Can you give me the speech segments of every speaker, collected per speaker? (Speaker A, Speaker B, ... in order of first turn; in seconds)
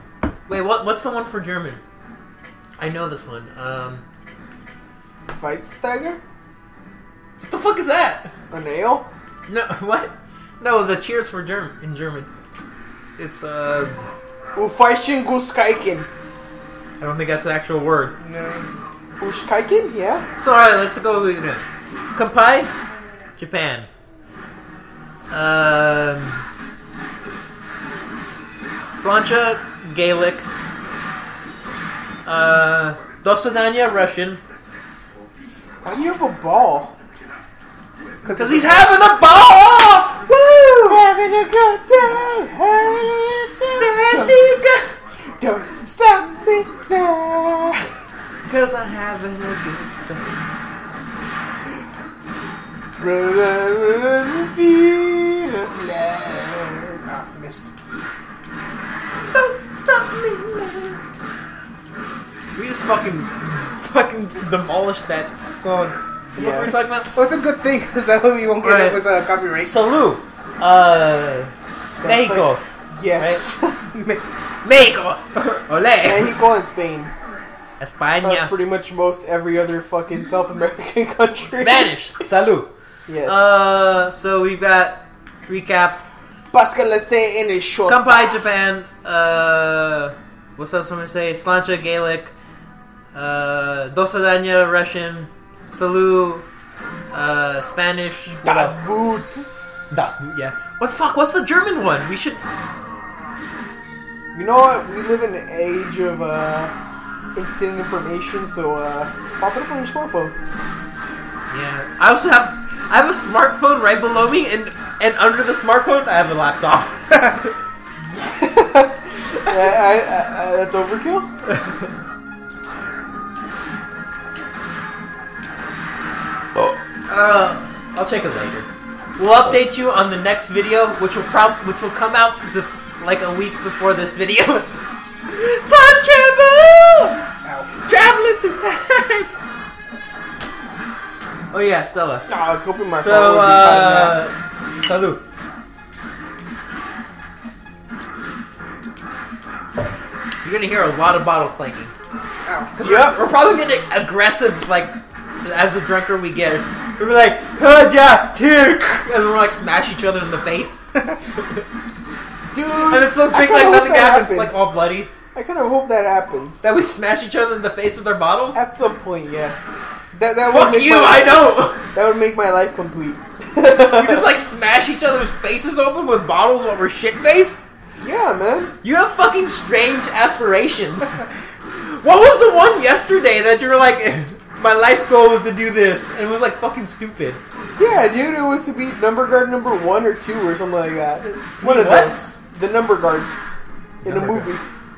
Speaker A: 0.5-1.8, 2.8-4.0, 7.4-8.3, 9.5-12.3, 13.2-14.1, 17.0-18.1, 20.4-21.6, 22.1-22.7, 23.4-23.9, 25.3-26.4, 28.9-30.5, 32.2-34.4, 38.3-41.0, 43.8-44.9, 48.4-50.3, 59.3-60.9, 62.5-65.5, 66.3-67.2, 68.6-69.0, 69.6-73.4, 74.6-76.3, 77.8-78.5, 81.5-82.7, 83.2-86.0, 87.8-92.3, 93.1-96.4, 97.1-98.8, 99.9-102.4, 111.5-117.3, 121.5-121.8, 127.1-134.7, 135.3-137.2, 137.8-139.3, 141.5-142.3, 142.9-145.2, 150.4-151.9, 152.8-160.8, 161.4-161.6, 162.9-165.1, 166.6-168.6, 170.5-171.8, 173.8-177.7, 178.8-181.2, 181.8-187.4, 191.6-192.2, 194.0-194.5
Speaker B: 5.3-6.2, 8.5-9.1, 14.6-16.1, 19.2-20.2, 35.8-37.0, 40.9-44.4, 45.4-47.8, 53.0-57.0, 66.3-67.2, 72.0-73.8, 76.0-77.1, 78.2-82.0, 83.1-83.6, 86.5-88.3, 98.3-99.5, 104.3-106.7, 107.3-110.3, 118.1-121.3, 142.3-144.2, 152.8-153.2, 162.5-164.7, 165.3-166.7, 168.5-174.3, 178.0-178.7, 187.8-194.6
Speaker C: 18.2-18.7, 38.2-38.9, 57.0-57.7, 59.7-60.0, 65.6-65.9, 67.1-69.7, 73.9-74.2, 137.4-137.7, 152.4-152.7